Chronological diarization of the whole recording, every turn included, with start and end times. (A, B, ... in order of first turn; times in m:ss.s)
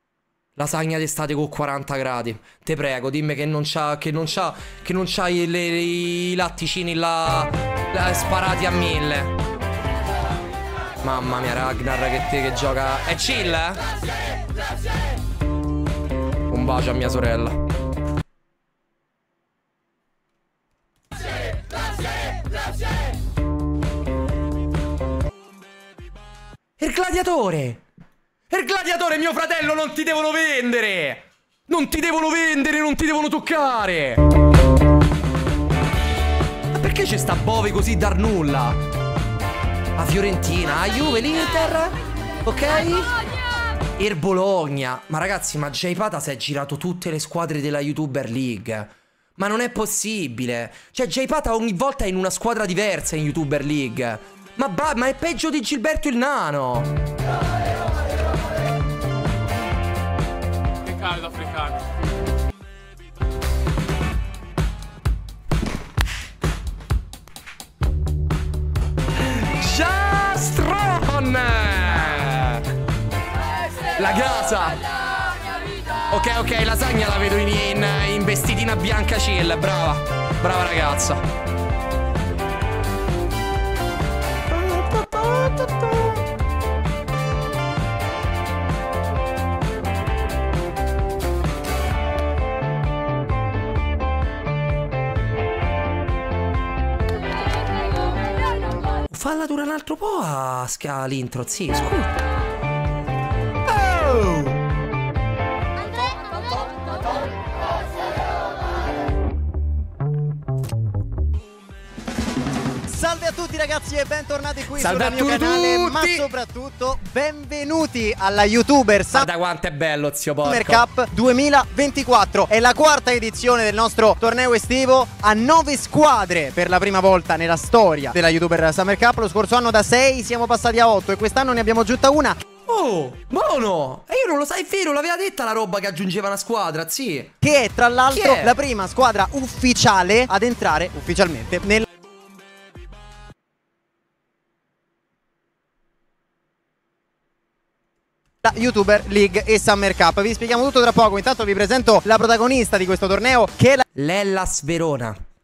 0:00.6-0:09.4 A
0:11.0-0:13.8 A
0:16.5-0:17.6 A
0:26.8-0:27.8 A
0:28.5-0:34.2 A
0:36.7-0:38.8 A
0:40.0-0:43.1 A
0:44.0-0:56.9 A
1:09.2-1:12.6 A
1:14.0-1:14.8 A
1:16.1-1:21.2 A
1:24.5-1:26.2 A
1:39.1-1:42.1 A
1:43.8-1:44.5 A
1:52.9-1:59.3 B
1:54.8-1:56.3 A
1:59.1-2:00.8 A
2:00.4-2:12.4 B
2:12.6-2:17.4 A
2:17.4-2:21.8 B
2:18.1-2:18.5 A
2:28.4-2:33.8 B
2:34.0-2:35.2 A